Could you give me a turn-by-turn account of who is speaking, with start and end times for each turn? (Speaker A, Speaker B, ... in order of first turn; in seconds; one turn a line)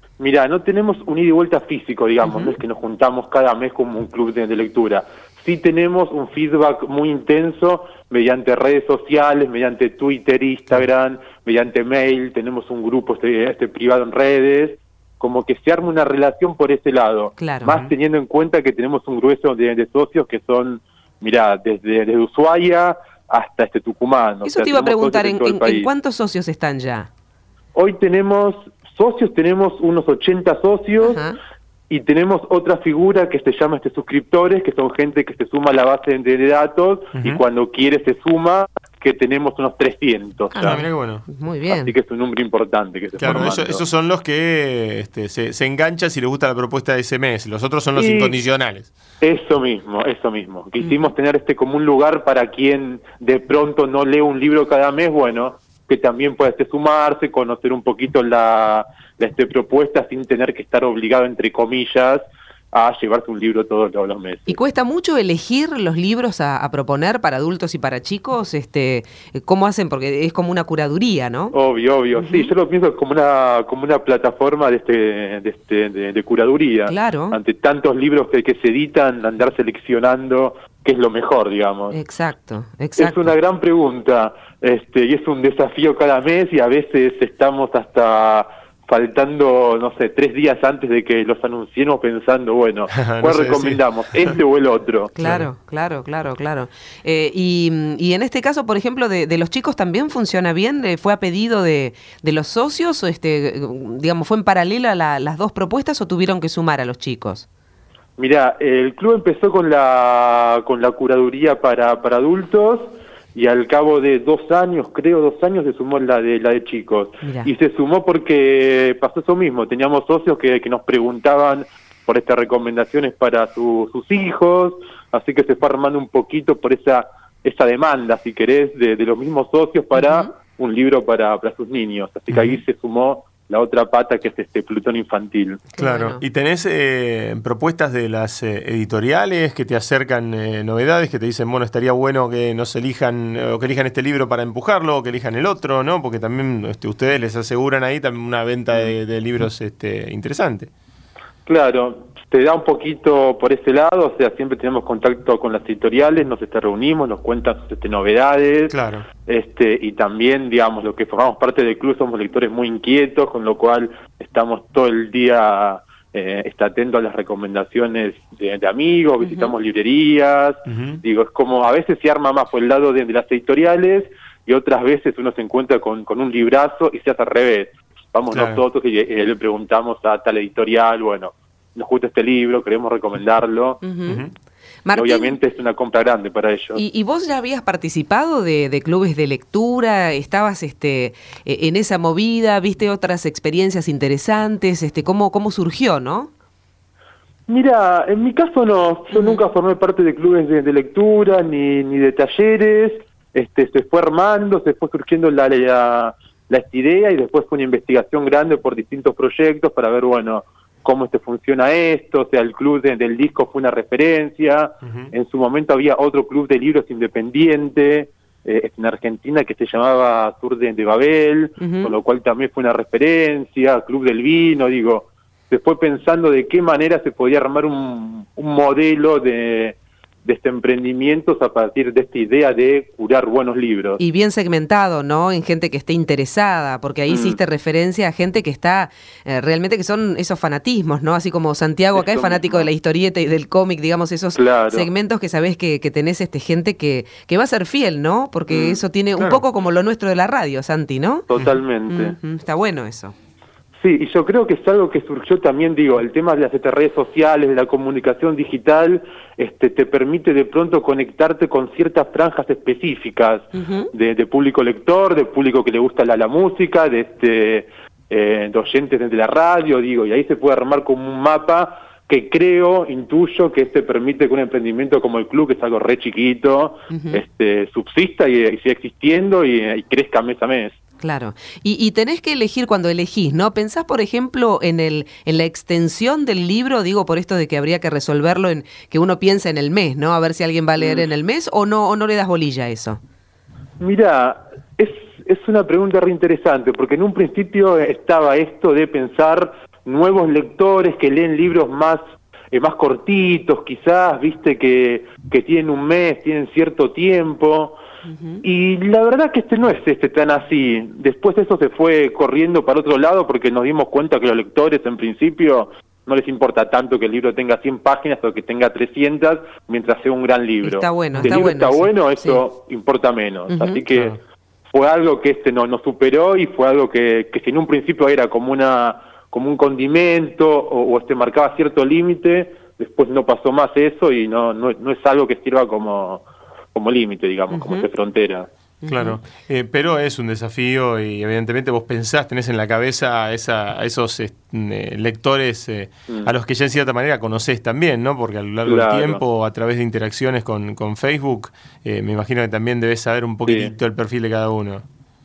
Speaker A: 0.2-25.9
Speaker B: 2.2-2.5
Speaker B: 17.4-17.7
Speaker B: 24.4-27.1
Speaker A: 27.7-31.2
Speaker B: 31.0-31.4
Speaker A: 31.9-40.8
Speaker C: 37.1-37.4
Speaker B: 40.5-41.9
Speaker C: 40.6-41.2
Speaker A: 41.7-43.8
Speaker C: 43.2-48.9
Speaker A: 47.9-48.4
Speaker A: 49.2-64.6
Speaker B: 50.8-51.1
Speaker B: 64.5-71.5
Speaker A: 71.5-82.0
Speaker B: 72.1-72.5
Speaker B: 76.9-77.4
Speaker B: 81.9-83.3
Speaker A: 83.0-95.2
Speaker C: 92.9-94.4
Speaker B: 95.1-107.5
Speaker C: 95.2-95.5
Speaker A: 108.2-135.7
Speaker B: 117.2-117.5
Speaker B: 129.9-130.3
Speaker C: 132.3-132.6
Speaker B: 135.7-136.2
Speaker C: 135.8-150.7
Speaker A: 151.4-183.8
Speaker C: 158.7-159.1
Speaker B: 169.2-169.5
Speaker C: 170.7-171.0
Speaker C: 178.3-178.6
Speaker B: 183.8-184.2
Speaker B: 184.8-185.4
Speaker A: 184.9-186.8
Speaker B: 186.7-196.3
Speaker A: 197.5-234.0
Speaker B: 199.1-199.4
Speaker C: 214.8-215.1
Speaker B: 221.6-221.9
Speaker B: 234.0-251.3
Speaker A: 237.1-237.4
Speaker A: 241.9-242.7
Speaker A: 244.3-244.9
Speaker A: 248.5-248.8
Speaker C: 249.2-249.4
Speaker A: 251.3-252.2
Speaker B: 251.9-253.1
Speaker A: 253.8-280.8
Speaker B: 263.5-263.9
Speaker B: 276.9-277.2
Speaker B: 281.0-293.0
Speaker A: 290.8-291.1
Speaker A: 293.8-302.0
Speaker A: 302.5-307.8
Speaker B: 308.1-308.4
Speaker A: 308.4-324.2
Speaker B: 320.6-322.4
Speaker C: 321.1-321.4
Speaker B: 323.5-323.8
Speaker A: 324.7-338.5
Speaker B: 337.5-337.9
Speaker B: 338.8-339.2
Speaker C: 338.9-354.8
Speaker A: 348.6-349.2
Speaker A: 353.4-353.7